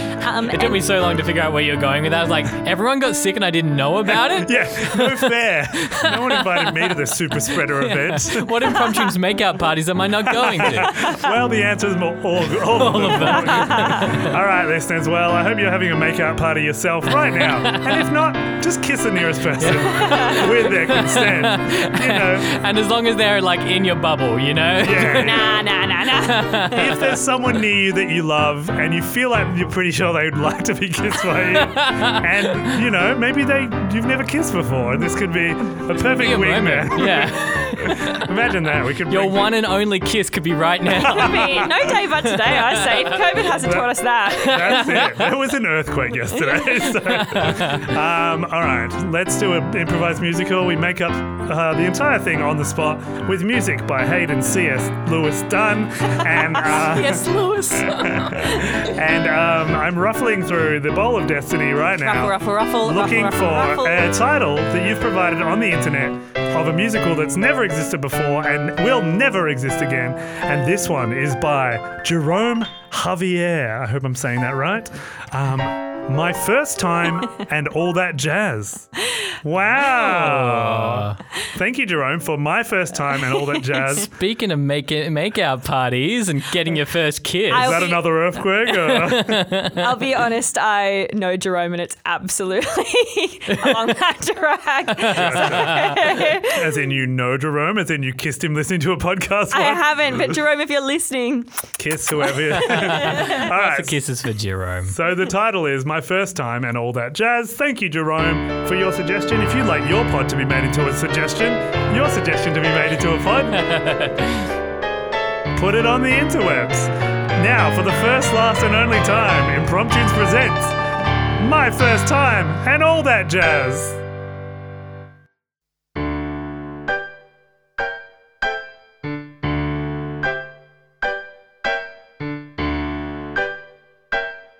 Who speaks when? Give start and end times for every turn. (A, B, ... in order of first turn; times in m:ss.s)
0:00.2-0:00.8 A
0:00.5-0:11.1 B
0:04.1-0:09.1 C
0:10.2-0:22.5 C
0:12.6-0:14.3 B
0:17.4-0:18.0 B
0:19.6-0:27.1 B
0:19.9-0:20.4 A
0:24.8-0:25.5 C
0:25.2-0:27.0 A
0:26.7-0:39.6 C
0:31.4-0:32.8 B
0:36.1-0:38.3 B
0:39.1-0:43.4 B
0:40.9-0:41.9 C
0:41.0-0:45.1 A
0:43.5-1:18.9 C
0:44.4-0:45.4 B
0:47.0-0:47.9 B
0:56.6-0:58.6 A
0:57.2-0:58.2 B
1:02.0-1:04.1 A
1:19.4-1:24.1 C
1:19.8-1:21.2 B
1:23.8-1:27.8 B
1:27.5-1:28.0 A
1:27.5-1:29.5 C
1:28.7-1:29.9 B
1:29.8-1:36.7 A
1:33.5-1:33.9 B
1:34.9-1:36.1 B
1:35.1-1:40.2 C
1:39.5-1:41.5 A
1:41.8-1:44.0 C
1:42.5-1:45.0 B
1:43.0-1:43.3 A
1:44.9-1:53.7 C
1:53.5-1:54.5 B
1:55.5-2:00.8 C
2:01.4-2:04.0 C